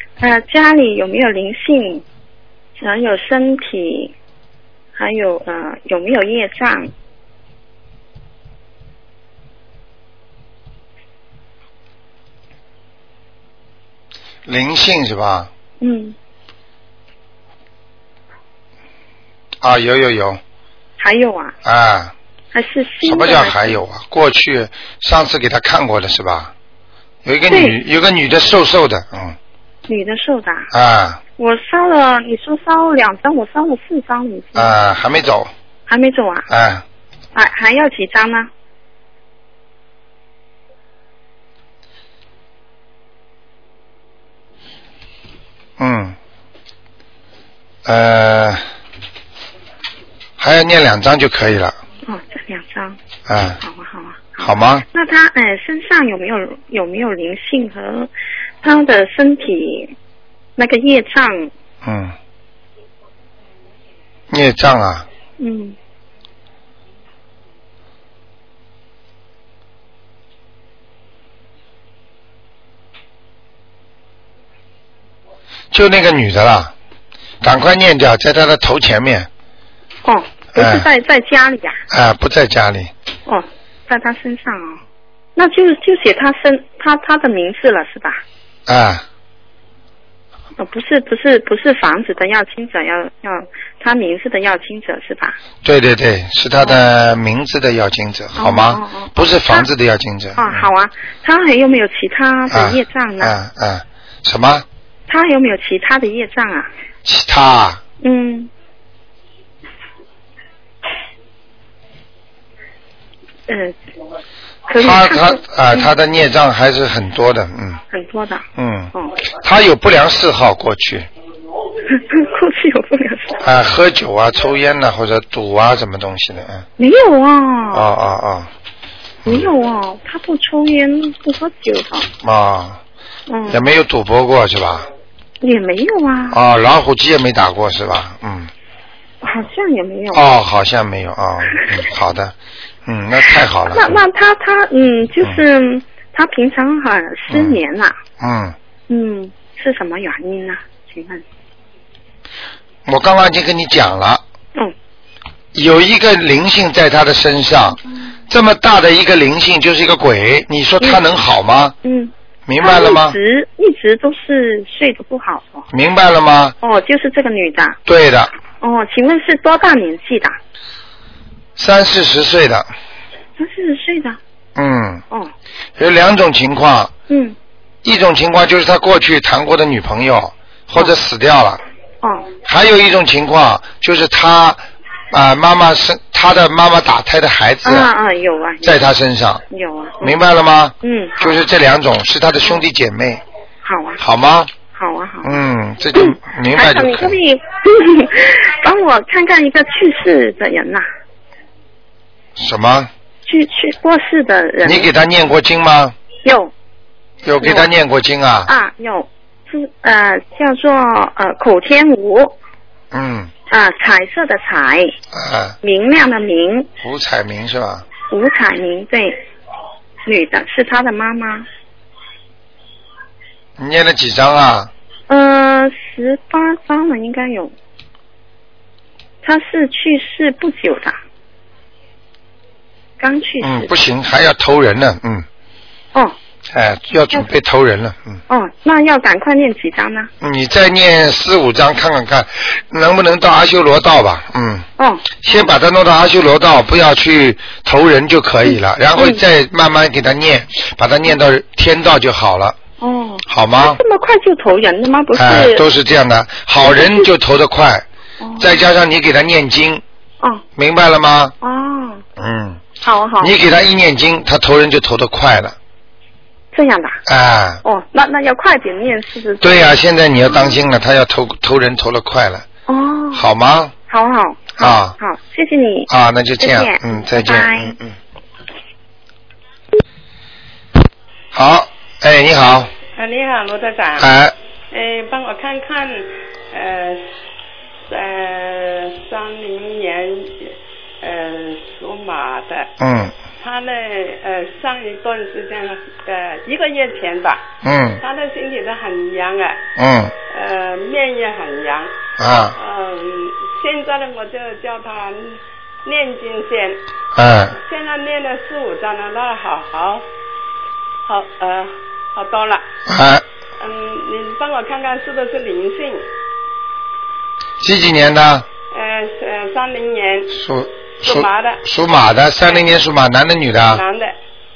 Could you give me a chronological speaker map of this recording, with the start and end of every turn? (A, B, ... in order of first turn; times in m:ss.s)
0:00.2-0:02.0 A
0:02.8-0:04.1 A
0:05.0-0:06.9 A
0:14.4-0:15.5 B
0:15.8-0:16.2 A
0:19.6-0:20.4 B
0:21.0-0:21.6 A
0:21.6-0:22.1 B
0:22.5-0:23.8 A
0:23.0-0:26.5 B
0:27.2-0:29.4 B
0:27.5-0:27.8 A
0:29.9-0:30.7 A
0:30.7-0:31.2 B
0:31.4-0:34.7 A
0:34.6-0:35.5 B
0:35.9-0:36.5 A
0:36.5-0:36.8 B
0:37.3-0:38.5 A
0:45.8-0:46.2 B
0:47.8-0:48.6 B
0:50.4-0:51.8 B
0:52.0-0:53.0 A
0:53.3-0:53.6 B
0:53.6-0:58.1 A
0:54.4-0:54.8 B
0:58.6-0:59.9 A
1:00.6-1:01.5 A
1:01.8-1:02.1 B
1:04.3-1:05.1 B
1:05.4-1:05.8 A
1:15.7-1:16.7 B
1:17.4-1:19.3 B
1:20.0-1:21.8 A
1:20.5-1:20.8 B
1:21.9-1:22.9 B
1:23.2-1:24.8 A
1:25.4-1:28.2 A
1:28.7-1:29.0 B
1:30.6-1:35.4 A
1:35.6-1:40.6 B
1:36.6-1:36.8 A
1:38.4-1:39.7 A
1:40.4-1:43.3 A
1:42.5-1:44.6 B
1:45.1-1:46.7 A
1:47.0-1:47.8 B
1:48.0-1:48.5 A
1:53.5-1:53.8 A
1:54.7-1:55.9 A
1:54.7-1:57.8 B
1:57.9-1:59.2 A
1:58.6-2:01.1 B
2:01.9-2:03.4 A
2:03.4-2:06.6 B
2:06.8-2:07.9 A
2:07.7-2:08.5 B
2:09.3-2:12.1 A
2:12.2-2:12.8 B
2:13.3-2:13.6 A
2:13.5-2:14.9 B
2:15.4-2:16.4 A
2:16.3-2:18.5 B
2:19.2-2:20.2 A
2:20.1-2:22.3 B
2:22.8-2:24.0 B
2:23.3-2:28.0 A
2:27.3-2:27.6 B
2:28.2-2:28.6 B
2:28.9-2:31.2 A
2:32.8-2:34.2 B
2:35.5-2:41.8 B
2:40.8-2:41.1 A
2:41.8-2:45.7 A
2:42.4-2:43.2 B
2:45.7-2:46.6 B
2:46.6-2:47.8 A
2:47.8-2:48.3 B
2:48.6-2:50.4 A
2:51.6-2:52.7 B
2:53.4-2:54.2 A
2:54.6-2:55.0 B
2:55.8-2:56.9 B
2:57.1-2:57.4 A
2:57.8-3:01.6 B
3:02.0-3:02.3 A
3:02.4-3:07.9 B
3:07.6-3:08.9 A
3:08.6-3:09.4 B
3:09.5-3:10.2 A
3:10.0-3:13.2 B
3:10.8-3:11.4 A
3:13.6-3:14.0 A
3:14.0-3:14.5 B
3:14.6-3:15.3 A
3:15.2-3:17.2 B
3:15.9-3:20.9 A
3:22.4-3:22.9 B
3:23.2-3:24.9 A
3:24.6-3:25.9 B
3:26.2-3:26.5 A
3:27.2-3:28.5 B
3:27.4-3:27.7 A
3:28.5-3:32.4 A
3:32.9-3:33.3 B
3:33.5-3:34.9 A
3:35.1-3:35.6 B
3:35.6-3:36.7 A
3:36.8-3:37.8 B
3:38.1-3:39.2 A
3:40.0-3:41.4 A
3:43.6-3:44.7 B
3:45.1-3:47.5 A
3:49.2-3:51.0 A
3:53.0-3:53.7 A
3:53.4-3:55.2 B
3:56.5-3:58.2 B
3:58.3-4:00.1 A
4:00.2-4:12.6 B
4:04.8-4:05.1 A
4:08.4-4:09.2 A
4:12.8-4:15.6 A
4:13.3-4:13.8 B
4:15.1-4:17.8 B
4:16.6-4:17.1 A
4:18.2-4:18.6 A
4:18.4-4:19.8 B
4:20.6-4:21.3 B
4:21.4-4:22.0 A
4:22.2-4:22.6 B
4:22.8-4:23.3 A
4:23.2-4:25.6 B
4:26.5-4:27.0 A
4:27.0-4:27.6 B
4:27.6-4:30.6 A
4:29.4-4:32.4 B
4:32.7-4:33.3 A
4:33.1-4:33.7 B
4:33.9-4:37.8 A
4:34.6-4:35.0 B
4:35.9-4:37.9 B
4:41.3-4:42.7 B
4:43.0-4:44.1 C
4:44.0-4:44.3 B
4:44.7-4:47.1 C
4:47.9-4:52.7 C
4:52.8-4:53.1 B
4:53.4-4:57.4 C
4:57.6-4:58.0 B
4:58.0-4:59.6 C
4:59.8-5:00.1 B
5:00.3-5:01.9 C
5:02.2-5:02.6 B
5:02.6-5:06.8 C
5:07.1-5:07.6 B
5:07.5-5:10.0 C
5:11.0-5:12.7 C
5:12.8-5:13.2 B
5:13.6-5:16.0 C
5:17.6-5:18.4 B
5:18.7-5:20.4 C
5:20.3-5:23.8 B
5:21.0-5:21.6 C
5:22.4-5:22.8 C
5:23.7-5:24.2 C